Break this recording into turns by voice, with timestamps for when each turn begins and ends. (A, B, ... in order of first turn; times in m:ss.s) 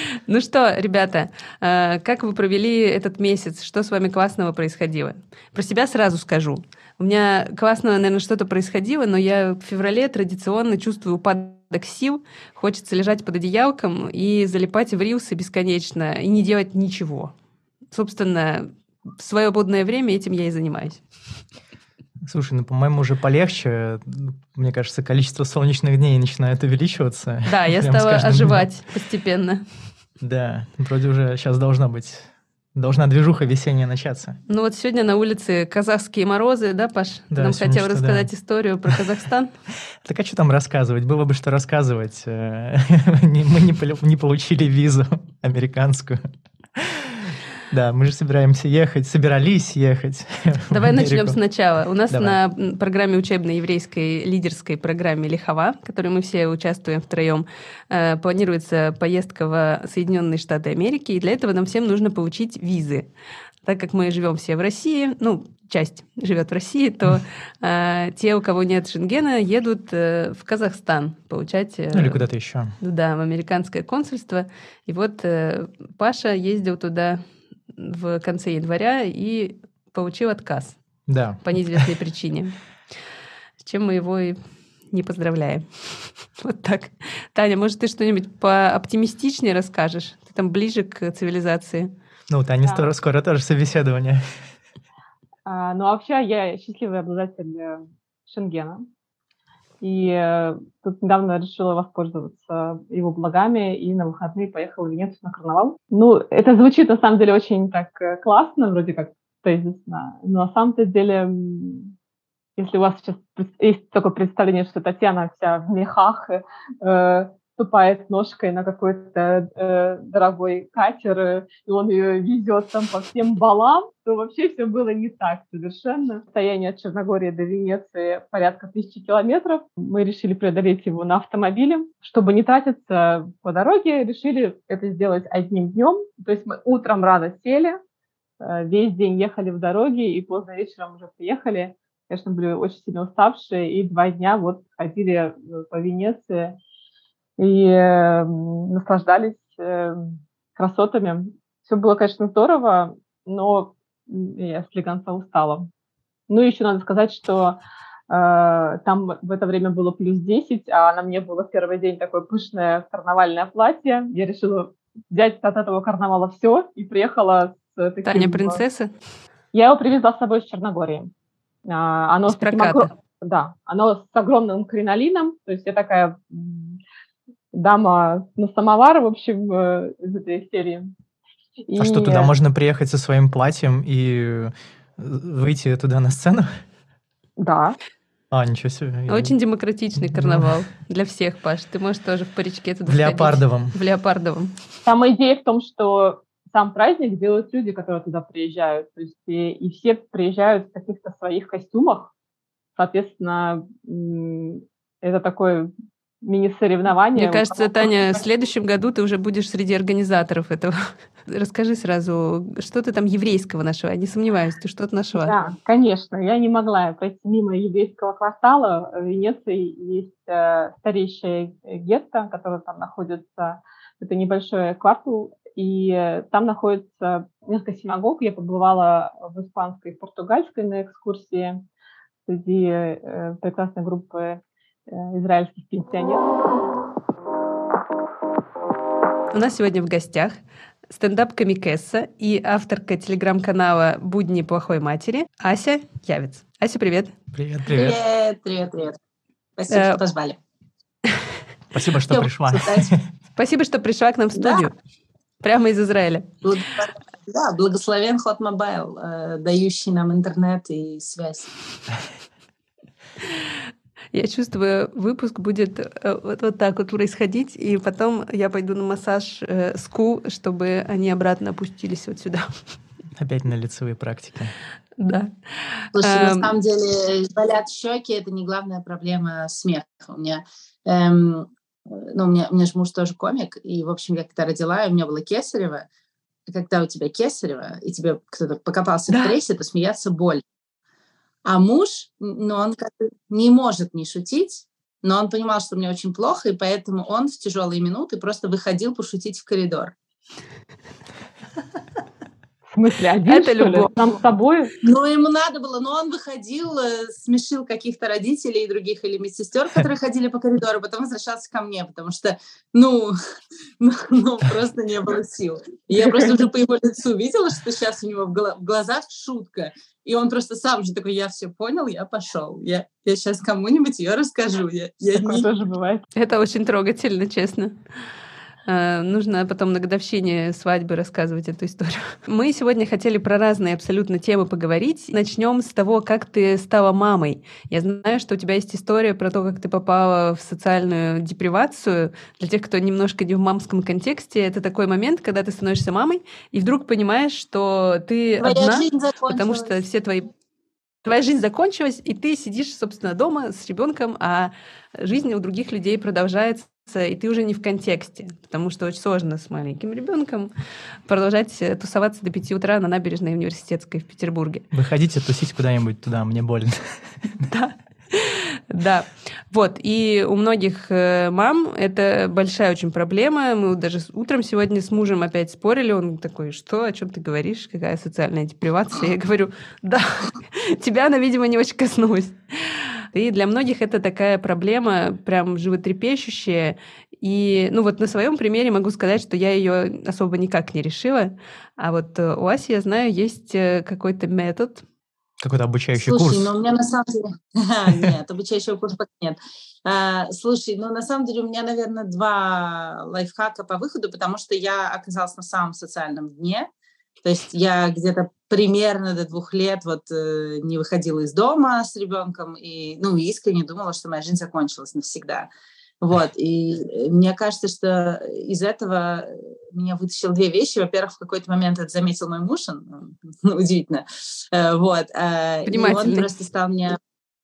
0:00.3-0:17.3 A
0:17.9-0:21.0 A
0:22.2-0:28.7 B
0:27.4-0:29.6 A
0:30.2-0:34.4 B
0:34.5-0:39.5 A
0:37.3-0:38.3 B
0:40.0-0:46.2 B
0:46.8-0:51.4 B
0:50.7-1:03.1 A
0:52.1-0:52.4 B
1:03.6-1:20.8 A
1:11.9-1:12.7 B
1:21.1-1:21.8 B
1:21.4-1:22.6 A
1:23.6-1:31.9 A
1:32.3-1:34.4 B
1:35.4-1:38.8 C
1:39.8-1:51.9 C
1:52.6-2:17.8 C
2:18.4-2:26.6 C
2:27.4-2:35.7 C
2:36.3-2:37.6 C
2:38.1-2:48.6 C
2:48.0-2:48.9 A
2:49.5-2:51.1 C
2:51.6-2:56.8 C
2:52.3-2:52.9 A
2:57.5-3:00.9 C
3:01.7-3:02.3 C
3:01.8-3:06.5 B
3:07.4-3:07.8 C
3:08.3-3:09.3 B
3:09.1-3:14.6 A
3:10.0-3:10.5 B
3:12.8-3:13.8 B
3:14.8-3:22.1 C
3:22.8-3:28.1 C
3:27.1-3:35.3 A
3:35.1-3:51.6 C
3:52.2-3:56.2 C
3:59.3-4:00.4 A
4:00.9-4:07.2 A
4:07.3-4:08.0 B
4:07.6-4:09.0 D
4:09.6-4:10.4 D
4:09.7-4:10.0 A
4:11.7-4:13.0 B
4:12.1-4:12.9 D
4:13.3-4:14.7 A
4:14.3-4:14.7 D
4:15.4-4:16.3 A
4:16.4-4:21.5 D
4:24.1-4:32.5 A
4:33.2-4:34.5 B
4:35.0-4:36.5 A
4:35.9-4:45.8 D
4:46.5-4:50.4 D
4:49.1-4:49.4 A
4:51.4-4:59.9 D
5:02.7-5:04.7 C
5:03.3-5:04.1 A
5:04.8-5:13.2 D
5:13.8-5:25.5 D
5:15.9-5:16.4 C
5:25.1-5:26.0 C
5:26.1-5:27.8 A
5:28.6-5:50.3 A
5:48.4-5:49.7 D
5:51.0-6:00.5 A
6:01.0-6:04.7 A
6:04.7-6:07.4 B
6:07.4-6:34.8 A
6:35.4-6:36.5 B
6:35.9-6:46.7 D
6:47.2-6:55.5 D
6:56.0-7:07.0 D
7:05.6-7:06.3 A